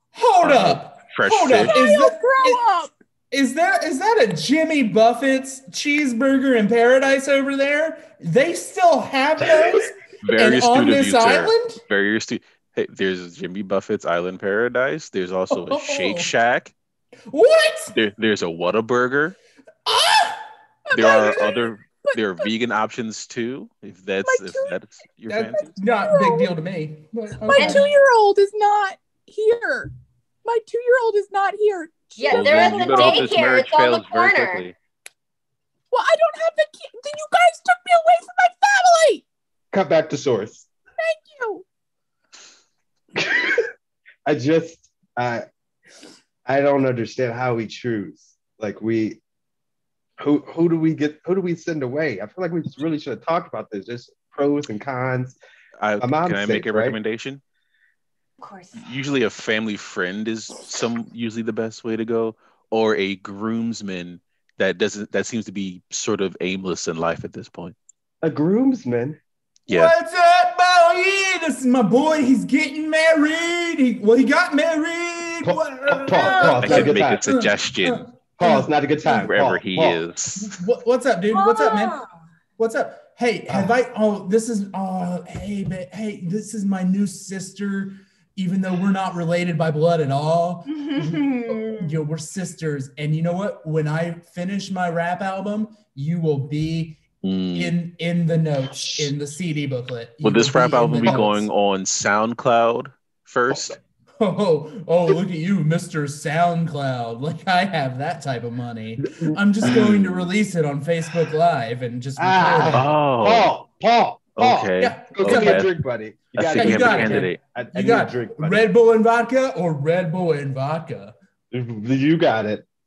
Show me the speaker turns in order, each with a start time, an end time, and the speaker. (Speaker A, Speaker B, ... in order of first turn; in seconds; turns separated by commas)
Speaker A: 0.1-2.6, Speaker B: 0.4-1.8, Speaker C: 1.6-2.9, Speaker A: 3.3-11.8, Speaker B: 10.2-16.7, Speaker A: 15.5-16.3, Speaker A: 17.3-17.9, Speaker B: 17.9-19.4, Speaker A: 19.9-20.4, Speaker C: 20.9-22.2, Speaker B: 20.9-25.7, Speaker C: 24.2-24.8, Speaker A: 25.3-27.8, Speaker C: 26.0-26.5, Speaker C: 27.4-29.9, Speaker D: 27.6-27.8, Speaker C: 30.4-33.3, Speaker D: 32.2-34.6, Speaker B: 32.3-34.7, Speaker C: 35.9-39.2, Speaker E: 39.7-40.7, Speaker C: 41.0-41.6, Speaker E: 43.1-43.7, Speaker E: 44.2-45.5, Speaker E: 46.5-49.2, Speaker E: 50.2-55.4, Speaker B: 55.8-57.4, Speaker E: 56.0-57.0, Speaker D: 58.4-58.8, Speaker B: 58.8-67.7, Speaker E: 68.2-69.2, Speaker B: 69.7-69.9, Speaker A: 69.7-79.3, Speaker E: 75.4-77.2, Speaker D: 76.2-76.8, Speaker B: 76.6-78.1, Speaker E: 78.4-80.0, Speaker B: 79.0-80.6, Speaker A: 80.4-82.0, Speaker D: 81.3-82.1, Speaker A: 82.6-97.0, Speaker E: 83.5-83.7, Speaker D: 90.7-92.0, Speaker B: 97.2-97.7, Speaker A: 97.5-101.5, Speaker B: 100.2-103.8, Speaker E: 103.5-103.8, Speaker A: 104.2-112.9, Speaker E: 109.1-109.9, Speaker B: 109.6-110.3, Speaker E: 112.2-118.7, Speaker B: 112.7-113.5, Speaker B: 114.3-115.7, Speaker A: 114.8-115.6, Speaker B: 116.3-117.4, Speaker A: 116.5-121.1, Speaker E: 121.5-122.7